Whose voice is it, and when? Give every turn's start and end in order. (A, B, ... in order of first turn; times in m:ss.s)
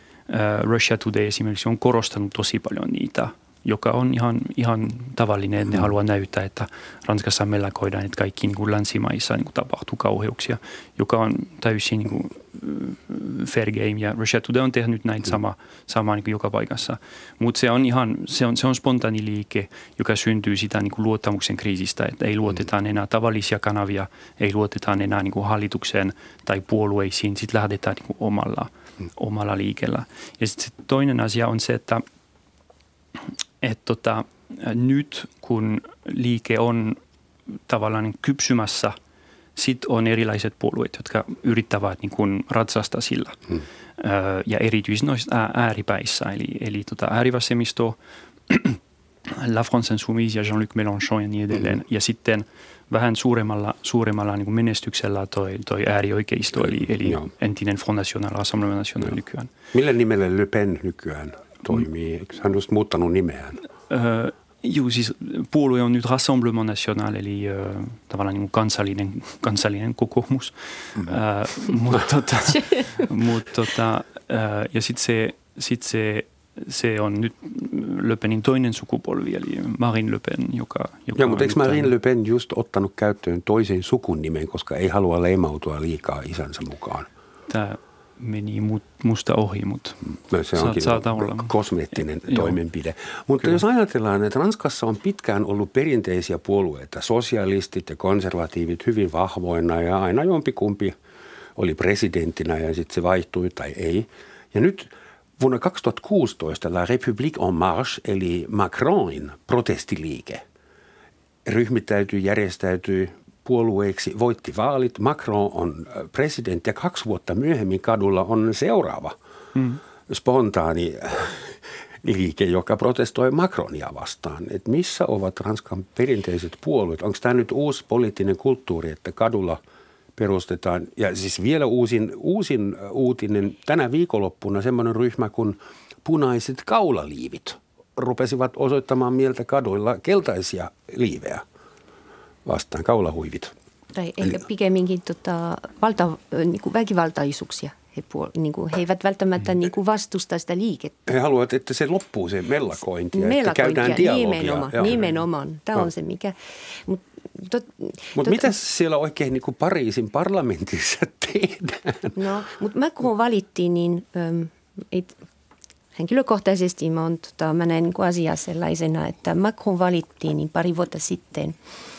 0:00.3-0:32.0 A
0:33.2-0:37.0 A
0:37.7-0:39.0 A
0:39.6-0:43.4 A
0:44.0-0:59.5 A
0:56.6-0:57.3 B
0:59.7-1:03.6 B
1:03.9-1:21.9 A
1:21.1-1:27.1 B
1:27.5-1:31.5 A
1:30.3-1:40.9 B
1:32.3-1:32.6 A
1:41.6-1:50.4 B
1:51.4-1:59.1 B
1:59.5-1:59.8 A
2:00.1-2:09.6 B
2:10.2-2:21.4 B
2:22.4-2:23.5 B
2:23.9-2:31.1 C
2:31.1-2:35.0 B
2:33.1-2:38.5 C
2:38.2-2:42.2 B
2:42.1-2:45.1 C
2:45.9-2:51.6 C